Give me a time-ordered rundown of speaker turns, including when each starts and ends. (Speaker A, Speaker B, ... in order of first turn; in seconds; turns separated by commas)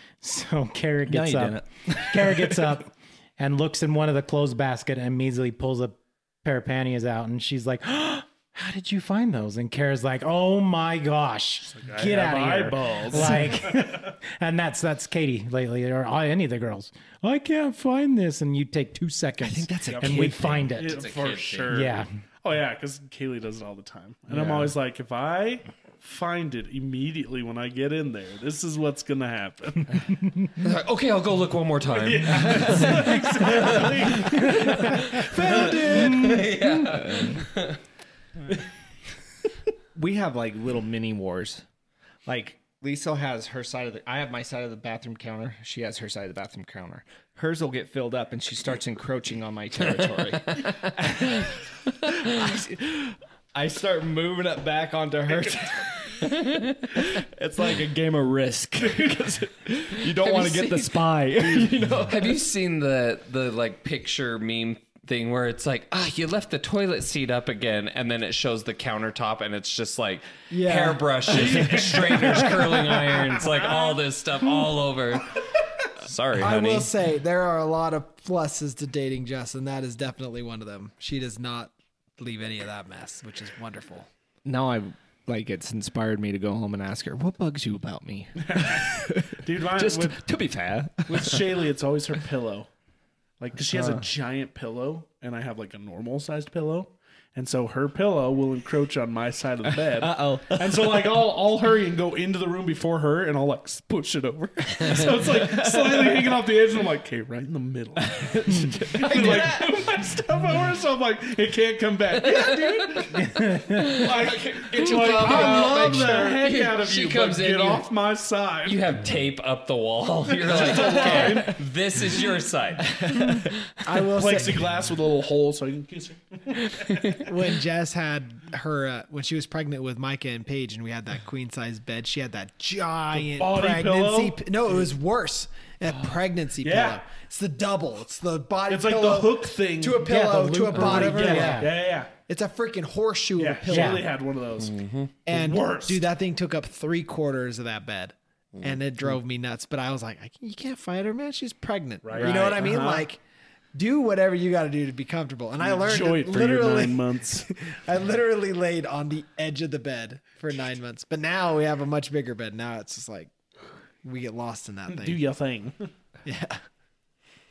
Speaker A: 0.2-21.1, Speaker B: 1.1-2.7, Speaker C: 11.7-14.1, Speaker B: 19.4-20.8, Speaker C: 19.9-30.3, Speaker D: 20.8-21.8, Speaker A: 21.7-22.1, Speaker B: 24.3-24.7, Speaker D: 30.6-37.8, Speaker C: 31.9-35.1, Speaker E: 35.0-36.5, Speaker B: 37.0-37.4, Speaker B: 40.0-41.6, Speaker B: 42.3-62.3, Speaker D: 60.1-76.9, Speaker E: 70.5-72.2, Speaker C: 71.3-72.8, Speaker E: 76.3-84.1, Speaker B: 84.4-91.6, Speaker C: 88.5-90.2, Speaker C: 91.1-92.7, Speaker C: 93.4-118.8, Speaker B: 93.7-94.0, Speaker B: 99.7-101.1, Speaker B: 105.4-106.3, Speaker B: 108.1-109.9, Speaker D: 112.3-113.1, Speaker A: 113.2-113.9, Speaker B: 114.0-116.3, Speaker D: 114.8-117.8, Speaker D: 118.7-123.5, Speaker C: 120.4-121.6, Speaker B: 120.6-121.5, Speaker B: 122.9-123.5, Speaker E: 123.8-124.6, Speaker C: 124.1-127.2, Speaker D: 126.7-127.2, Speaker E: 127.2-141.7, Speaker C: 133.2-134.4, Speaker C: 136.6-137.0, Speaker C: 138.7-140.2, Speaker A: 140.0-141.7, Speaker C: 140.8-142.1, Speaker E: 142.3-144.1, Speaker C: 143.4-144.8, Speaker A: 143.7-144.1, Speaker D: 144.6-145.2, Speaker E: 145.3-153.2, Speaker C: 145.3-146.0, Speaker C: 152.0-153.1, Speaker E: 153.7-163.3, Speaker C: 155.6-157.5, Speaker E: 164.0-165.2, Speaker C: 164.9-165.9, Speaker E: 166.3-166.6